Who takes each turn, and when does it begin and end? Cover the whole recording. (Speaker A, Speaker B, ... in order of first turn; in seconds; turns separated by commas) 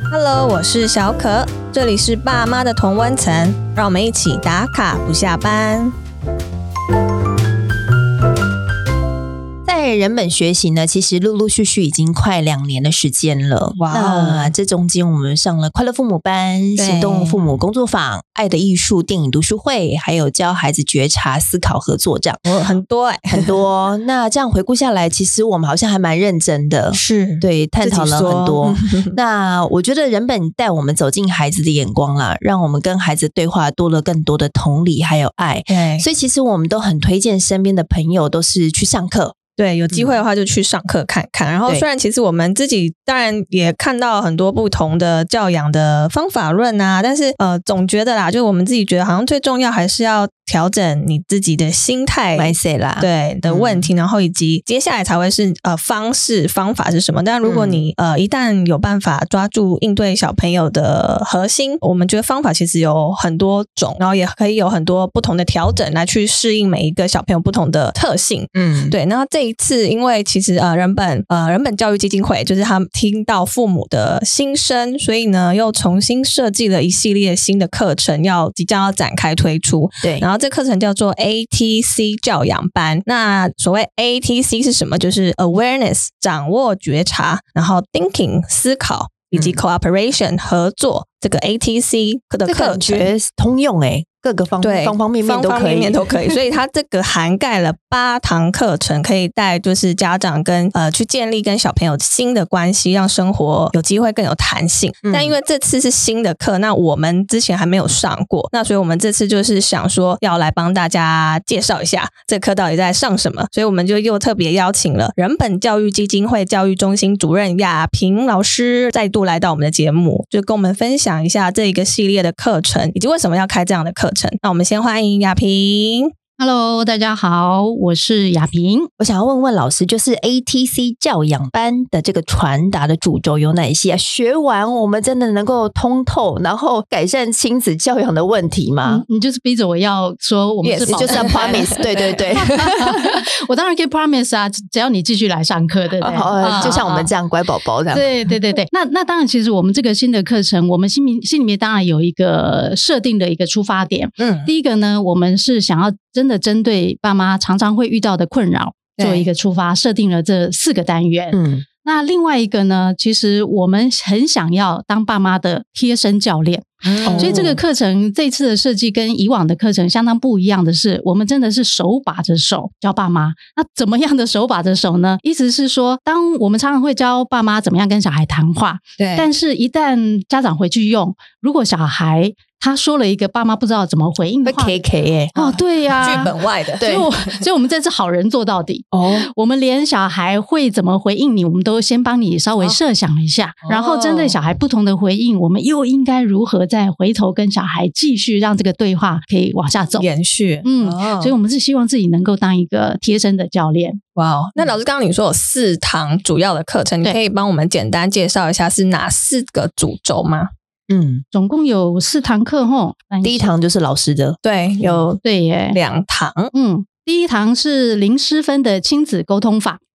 Speaker A: 0.1-5.9, Speaker B: 9.6-22.4, Speaker A: 13.8-14.5, Speaker A: 16.8-17.4, Speaker A: 22.4-23.6, Speaker B: 23.3-39.4, Speaker A: 26.9-29.1, Speaker A: 35.7-36.0, Speaker A: 39.6-93.1, Speaker B: 39.9-40.2, Speaker B: 52.3-53.9, Speaker B: 57.4-57.8, Speaker B: 68.5-69.0, Speaker B: 80.0-80.3, Speaker B: 89.3-89.6, Speaker B: 92.5-96.4, Speaker A: 94.6-126.1, Speaker B: 105.0-105.3, Speaker C: 126.4-128.9, Speaker B: 129.0-139.0, Speaker C: 138.8-146.8, Speaker A: 140.6-142.2, Speaker B: 140.8-143.0, Speaker B: 146.0-148.1, Speaker A: 146.4-147.1, Speaker C: 147.9-184.8, Speaker A: 154.2-154.5, Speaker A: 159.0-159.3, Speaker B: 161.3-161.6, Speaker A: 166.8-167.5, Speaker B: 167.0-167.6, Speaker A: 179.0-179.3, Speaker B: 184.4-185.6, Speaker C: 185.3-200.1, Speaker A: 186.0-187.4, Speaker B: 186.8-187.1, Speaker B: 188.9-189.3, Speaker A: 193.6-194.3, Speaker A: 200.0-201.3, Speaker C: 200.6-204.0, Speaker A: 204.2-210.5, Speaker B: 210.9-211.2, Speaker C: 211.3-213.5, Speaker B: 213.2-215.0, Speaker A: 214.4-216.5, Speaker C: 215.2-215.8, Speaker C: 216.5-219.8